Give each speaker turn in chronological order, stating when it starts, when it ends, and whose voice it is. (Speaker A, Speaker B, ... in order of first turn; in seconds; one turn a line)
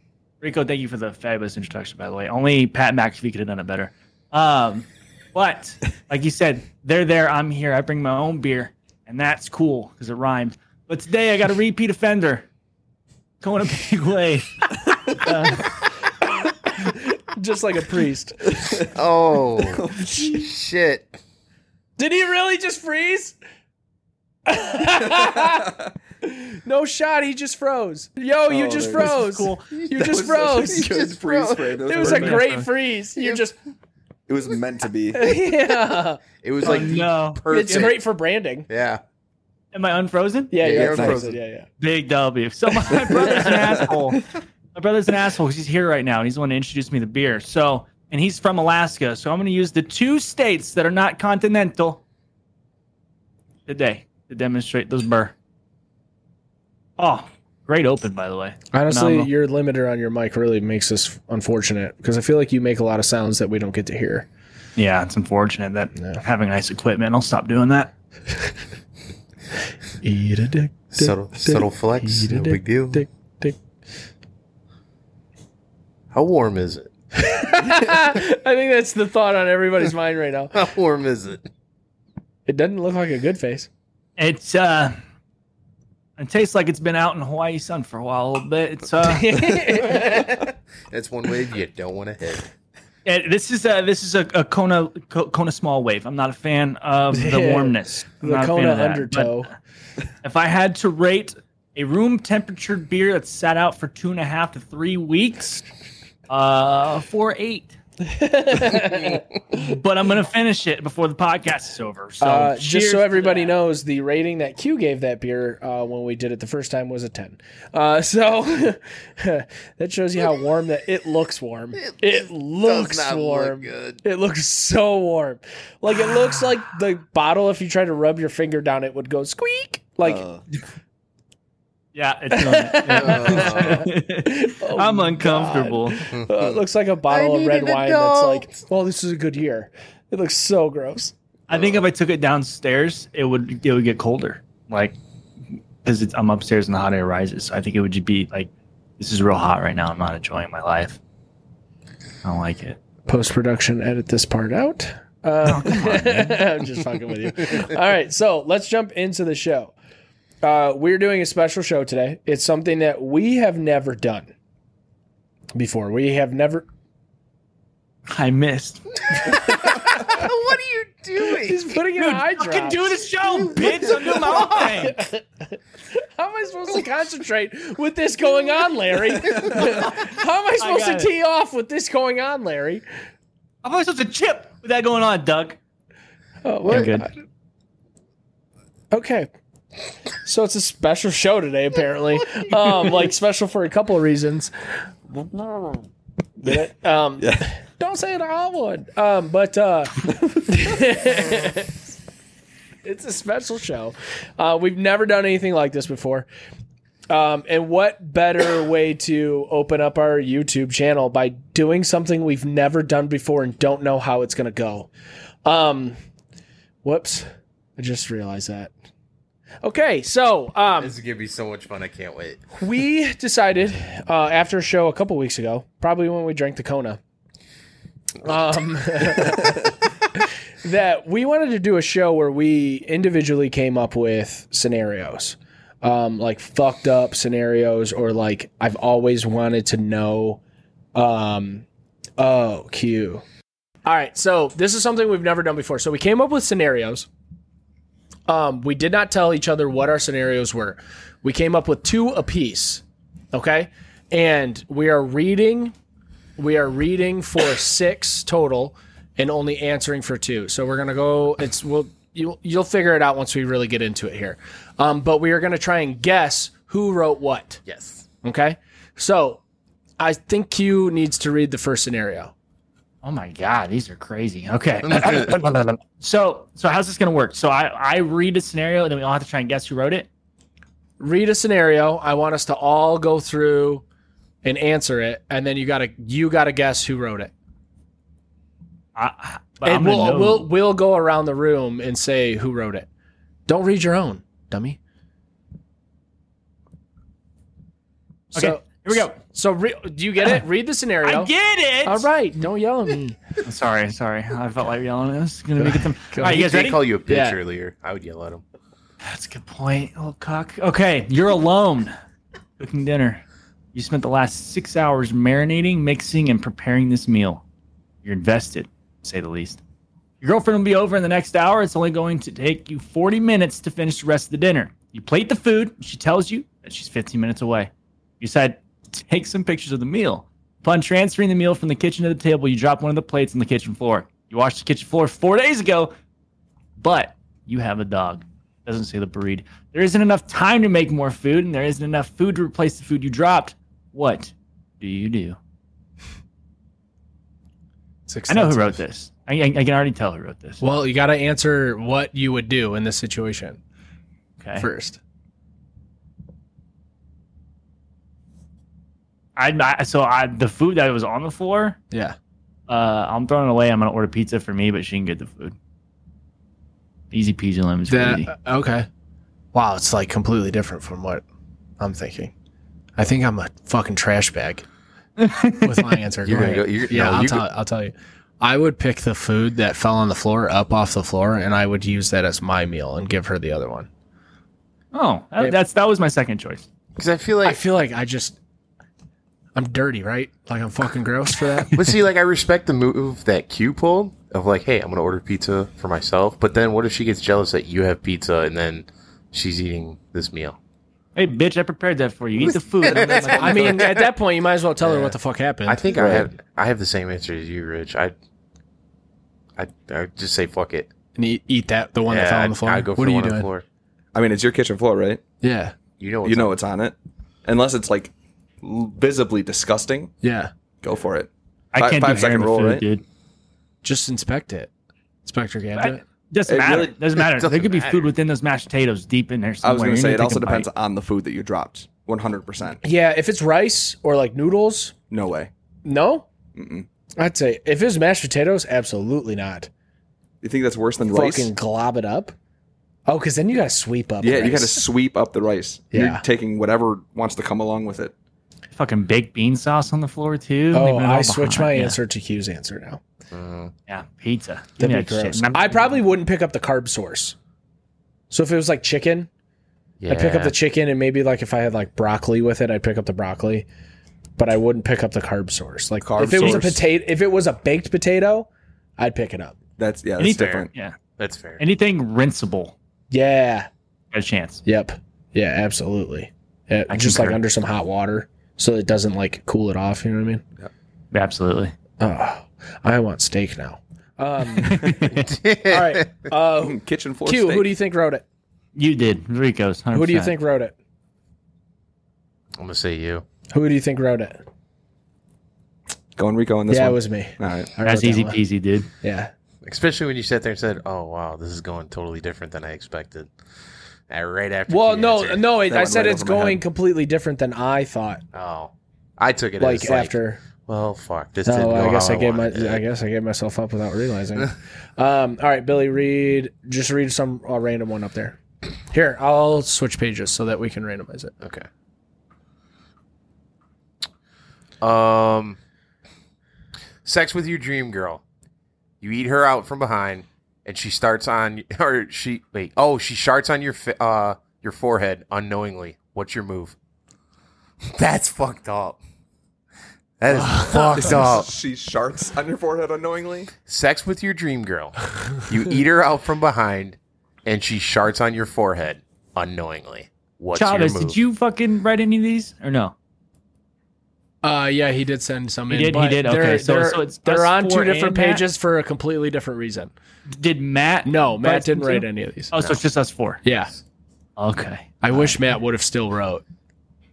Speaker A: 0.4-12.4
Speaker A: 13.4-15.8
Speaker B: 16.6-18.8
Speaker C: 18.8-21.2
Speaker D: 19.7-20.2
Speaker B: 22.0-23.4
Speaker B: 24.4-30.9
Speaker D: 25.0-25.7
Speaker D: 28.5-29.2
Speaker A: 28.8-29.6
Speaker C: 29.7-32.1
Speaker D: 29.9-32.5
Speaker B: 31.9-33.5
Speaker A: 32.0-32.6
Speaker C: 33.2-33.4
Speaker D: 34.3-35.4
Speaker B: 35.1-36.9
Speaker C: 36.4-38.0
Speaker A: 36.6-37.9
Speaker B: 37.5-38.7
Speaker C: 38.7-39.0
Speaker A: 39.7-40.5
Speaker B: 40.5-41.7
Speaker C: 40.6-41.4
Speaker D: 40.6-41.3
Speaker A: 41.8-44.2
Speaker A: 44.7-52.0
Speaker A: 53.7-55.3
Speaker A: 57.0-59.3
Speaker B: 58.7-64.3
Speaker A: 64.8-67.9
Speaker B: 70.0-73.5
Speaker C: 70.9-73.0
Speaker C: 76.1-76.9
Speaker B: 77.2-80.6
Speaker C: 80.5-81.5
Speaker B: 82.5-83.7
Speaker A: 84.2-84.9
Speaker A: 86.2-89.6
Speaker B: 89.0-90.3
Speaker C: 89.7-92.5
Speaker A: 93.0-99.4
Speaker B: 97.1-99.5
Speaker A: 100.2-105.6
Speaker A: 106.3-107.8
Speaker B: 108.0-109.6
Speaker A: 109.5-113.5
Speaker B: 112.2-130.2
Speaker C: 121.8-124.0
Speaker A: 131.9-136.1
Speaker B: 132.3-141.1
Speaker C: 132.9-133.9
Speaker C: 136.1-136.5
Speaker C: 137.1-138.6
Speaker A: 141.5-144.9
Speaker A: 145.8-151.0
Speaker A: 152.2-152.8
Speaker B: 153.1-159.7
Speaker A: 155.4-156.4
Speaker B: 160.4-164.3
Speaker B: 165.5-166.7
Speaker A: 168.1-169.0
Speaker C: 169.1-171.6
Speaker B: 169.7-170.2
Speaker B: 171.3-173.0
Speaker A: 171.9-175.0
Speaker C: 173.2-174.9
Speaker B: 173.6-182.8
Speaker A: 180.6-181.1
Speaker A: 183.6-185.6
Speaker B: 186.4-187.1
Speaker A: 186.6-187.1
Speaker B: 188.9-189.3
Speaker B: 190.2-194.5
Speaker B: 196.4-201.7
Speaker D: 197.2-197.4
Speaker B: 202.8-206.3
Speaker B: 207.1-214.9
Speaker B: 215.4-215.9
Speaker B: 216.8-218.7
Speaker B: 219.6-220.9
Speaker C: 220.8-222.4
Speaker B: 222.5-227.0
Speaker B: 228.2-229.8
Speaker B: 230.6-240.4
Speaker B: 240.9-241.6
Speaker B: 242.2-243.2
Speaker B: 243.8-247.1
Speaker B: 248.3-255.7
Speaker B: 256.4-267.6
Speaker C: 267.6-268.0
Speaker B: 268.2-269.4
Speaker B: 270.0-272.3
Speaker A: 273.0-280.1
Speaker C: 274.8-275.3
Speaker B: 281.0-283.8
Speaker B: 284.4-287.3
Speaker A: 288.9-290.5
Speaker B: 289.6-292.9
Speaker B: 293.5-294.8
Speaker B: 298.3-301.3
Speaker A: 298.3-299.2
Speaker A: 301.0-302.1
Speaker B: 301.9-303.2
Speaker A: 303.4-306.8
Speaker B: 305.6-307.4
Speaker C: 306.2-308.4
Speaker A: 309.0-311.9
Speaker A: 312.6-313.2
Speaker A: 313.7-317.4
Speaker A: 318.0-319.6
Speaker A: 320.2-335.9
Speaker A: 336.8-345.4
Speaker B: 348.1-348.8
Speaker A: 348.3-350.6
Speaker B: 350.6-353.6
Speaker A: 354.4-354.7
Speaker B: 354.6-355.0
Speaker A: 359.4-361.8
Speaker A: 362.7-365.5
Speaker A: 367.1-368.3
Speaker B: 367.9-368.9
Speaker B: 369.5-371.2
Speaker B: 371.8-372.3
Speaker B: 373.0-374.6
Speaker A: 375.2-375.9
Speaker B: 375.6-383.9
Speaker C: 376.2-377.4
Speaker A: 384.9-386.6
Speaker C: 386.9-387.6
Speaker B: 387.4-388.4
Speaker B: 389.6-391.8
Speaker C: 391.7-400.6
Speaker A: 401.1-403.9
Speaker D: 402.8-403.8
Speaker C: 402.8-403.9
Speaker B: 403.3-405.9
Speaker C: 405.7-408.1
Speaker D: 405.9-406.3
Speaker C: 409.6-410.9
Speaker B: 411.1-413.5
Speaker C: 412.1-413.6
Speaker D: 414.1-415.2
Speaker B: 415.4-415.7
Speaker C: 416.0-416.5
Speaker D: 416.2-420.1
Speaker B: 420.2-420.5
Speaker D: 420.8-422.9
Speaker A: 421.7-423.0
Speaker B: 423.8-424.7
Speaker B: 425.2-426.0
Speaker A: 425.8-430.7
Speaker D: 426.5-427.2
Speaker C: 427.3-428.1
Speaker D: 429.6-432.8
Speaker B: 432.8-434.9
Speaker D: 435.1-435.5
Speaker B: 435.8-436.2
Speaker D: 436.5-436.9
Speaker B: 437.2-439.7
Speaker D: 440.4-441.5
Speaker B: 441.1-442.3
Speaker B: 443.1-444.9
Speaker D: 444.2-448.1
Speaker B: 445.9-446.2
Speaker A: 448.7-452.0
Speaker B: 450.7-453.0
Speaker C: 453.3-453.7
Speaker A: 453.9-456.0
Speaker B: 454.8-457.4
Speaker B: 458.3-459.3
Speaker C: 460.0-460.5
Speaker B: 460.1-463.6
Speaker B: 464.4-469.5
Speaker D: 466.0-466.9
Speaker C: 466.3-466.6
Speaker D: 469.8-470.7
Speaker A: 470.2-471.0
Speaker C: 470.4-470.6
Speaker C: 471.2-471.6
Speaker A: 471.6-472.7
Speaker B: 473.1-473.7
Speaker A: 474.1-474.6
Speaker B: 474.6-480.4
Speaker A: 476.9-477.4
Speaker A: 481.1-481.7
Speaker B: 482.0-485.1
Speaker A: 484.6-485.3
Speaker C: 485.0-486.1
Speaker B: 485.6-488.2
Speaker D: 486.6-487.7
Speaker A: 488.8-490.3
Speaker B: 489.9-490.7
Speaker C: 492.6-493.2
Speaker B: 493.5-494.4
Speaker D: 496.2-497.7
Speaker B: 496.7-498.4
Speaker A: 497.8-498.9
Speaker B: 499.0-499.3
Speaker C: 499.6-503.3
Speaker C: 504.1-505.5
Speaker B: 504.7-508.2
Speaker D: 505.7-506.6
Speaker C: 508.3-512.8
Speaker B: 509.6-510.4
Speaker B: 511.4-518.4
Speaker B: 518.9-521.3
Speaker C: 521.4-521.7
Speaker C: 524.8-525.6
Speaker C: 527.0-528.2
Speaker C: 529.0-536.7
Speaker C: 537.9-539.0
Speaker C: 540.2-541.5
Speaker B: 540.3-541.4
Speaker D: 540.9-543.5
Speaker C: 543.6-551.2
Speaker A: 550.5-552.9
Speaker B: 554.4-559.9
Speaker A: 555.7-558.4
Speaker A: 560.3-563.4
Speaker B: 561.0-562.5
Speaker C: 562.5-562.8
Speaker B: 563.4-563.7
Speaker A: 564.4-565.4
Speaker B: 565.0-566.4